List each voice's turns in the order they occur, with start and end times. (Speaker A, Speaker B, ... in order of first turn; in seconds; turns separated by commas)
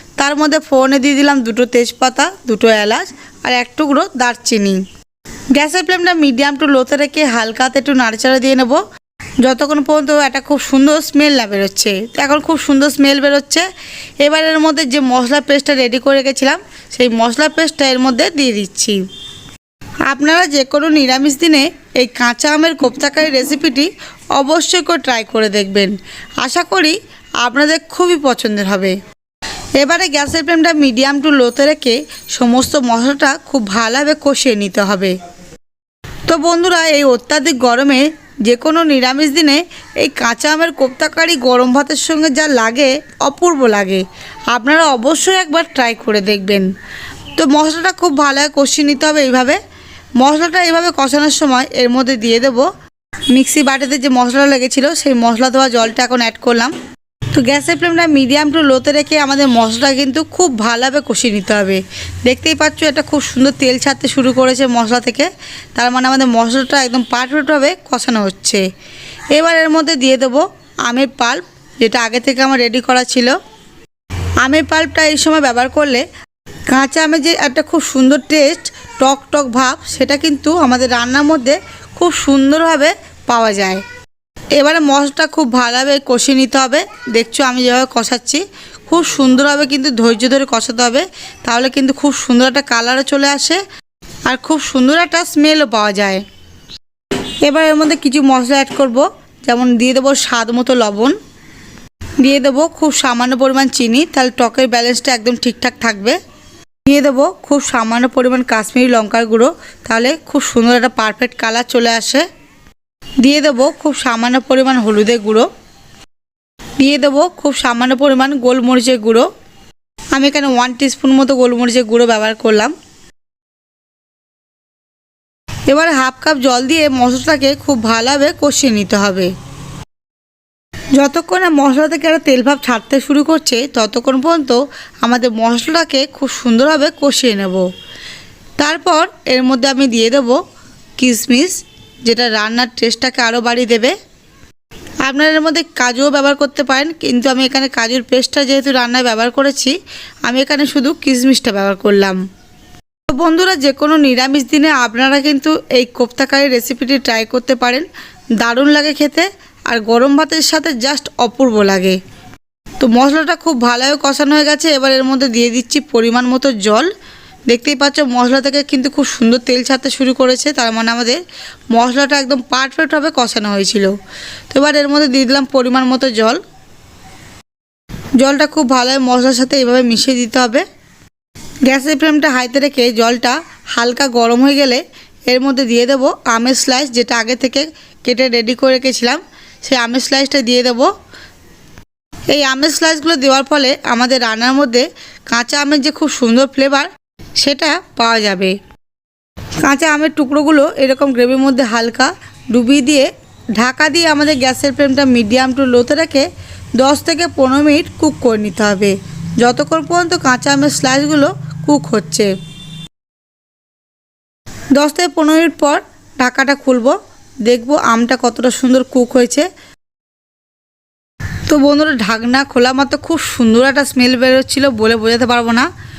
Speaker A: 0.2-4.8, Speaker A: 5.5-8.8, Speaker A: 9.4-13.7, Speaker A: 14.2-19.0, Speaker A: 20.1-29.0, Speaker A: 29.8-35.1, Speaker A: 36.3-46.7, Speaker A: 47.4-49.6, Speaker A: 50.2-52.7, Speaker A: 53.3-56.7, Speaker A: 57.4-68.6, Speaker A: 69.3-73.3, Speaker A: 74.4-76.0, Speaker A: 76.7-83.8, Speaker A: 84.6-93.6, Speaker A: 94.3-96.2, Speaker A: 97.5-101.2, Speaker A: 102.2-106.2, Speaker A: 106.8-112.3, Speaker A: 113.2-115.5, Speaker A: 116.8-119.3, Speaker A: 120.1-122.7, Speaker A: 125.7-129.3, Speaker A: 131.0-137.7, Speaker A: 138.6-140.4, Speaker A: 141.0-143.9, Speaker A: 145.1-149.8, Speaker A: 150.3-152.2, Speaker A: 153.1-157.9, Speaker A: 158.4-162.0, Speaker A: 162.8-166.9, Speaker A: 167.5-171.2, Speaker A: 171.7-173.9, Speaker A: 174.5-176.4, Speaker A: 178.2-180.7, Speaker A: 181.7-190.9, Speaker A: 192.3-198.6, Speaker A: 199.6-206.3, Speaker A: 206.8-212.3, Speaker A: 214.8-219.5, Speaker A: 221.5-225.7